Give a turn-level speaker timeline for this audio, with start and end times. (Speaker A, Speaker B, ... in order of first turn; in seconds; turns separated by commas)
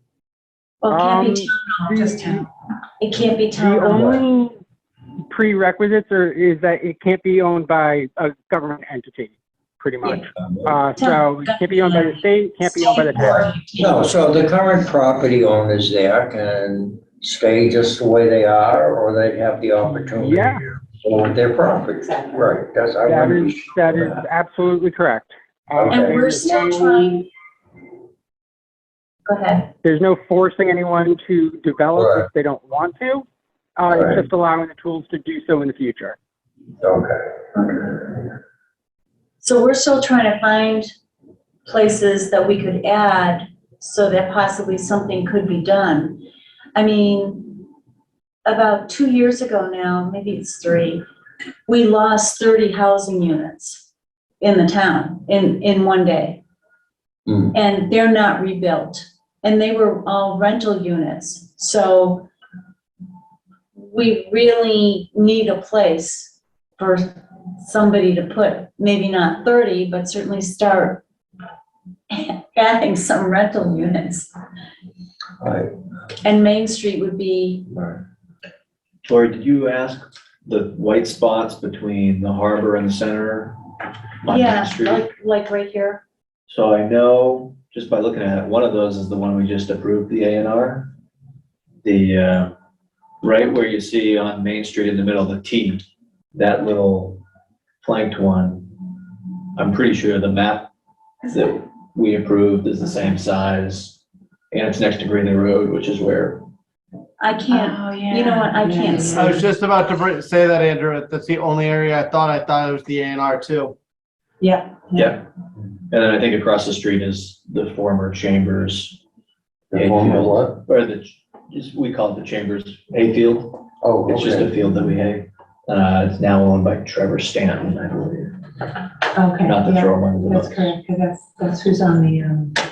Speaker A: 0.8-2.5, Speaker B: 0.9-2.5, Speaker A: 3.0-4.1, Speaker B: 3.6-4.6, Speaker C: 3.9-4.2, Speaker B: 5.3-13.5, Speaker C: 10.3-10.9, Speaker A: 11.0-14.0, Speaker D: 12.9-13.3, Speaker C: 13.2-24.3, Speaker B: 20.2-20.6, Speaker B: 23.0-27.1, Speaker C: 25.7-26.2, Speaker A: 25.9-27.3, Speaker A: 29.2-29.7, Speaker B: 29.8-36.2, Speaker C: 31.9-32.3, Speaker C: 33.9-34.3, Speaker C: 36.8-37.4, Speaker A: 39.4-40.9, Speaker A: 41.6-47.6, Speaker A: 48.4-51.0, Speaker A: 51.7-53.9, Speaker A: 54.4-56.4, Speaker C: 57.3-57.5, Speaker A: 57.5-62.3, Speaker A: 63.8-71.0, Speaker A: 72.1-74.3, Speaker C: 75.4-75.7, Speaker A: 76.2-77.7, Speaker C: 77.7-78.0, Speaker D: 79.0-83.6, Speaker D: 84.2-85.1, Speaker A: 84.2-86.0, Speaker D: 86.5-90.9, Speaker D: 91.8-92.5, Speaker D: 93.2-97.2, Speaker D: 97.8-99.0, Speaker D: 99.5-100.7, Speaker D: 101.3-104.0, Speaker D: 104.5-106.5, Speaker A: 107.2-109.4, Speaker E: 107.5-109.0, Speaker B: 108.7-109.2, Speaker F: 109.1-113.8, Speaker E: 114.4-115.1, Speaker D: 115.0-115.2, Speaker D: 115.9-119.0, Speaker C: 119.7-120.6, Speaker D: 119.7-128.3, Speaker C: 123.8-124.5, Speaker E: 129.2-132.2, Speaker D: 129.4-130.8, Speaker B: 131.7-132.5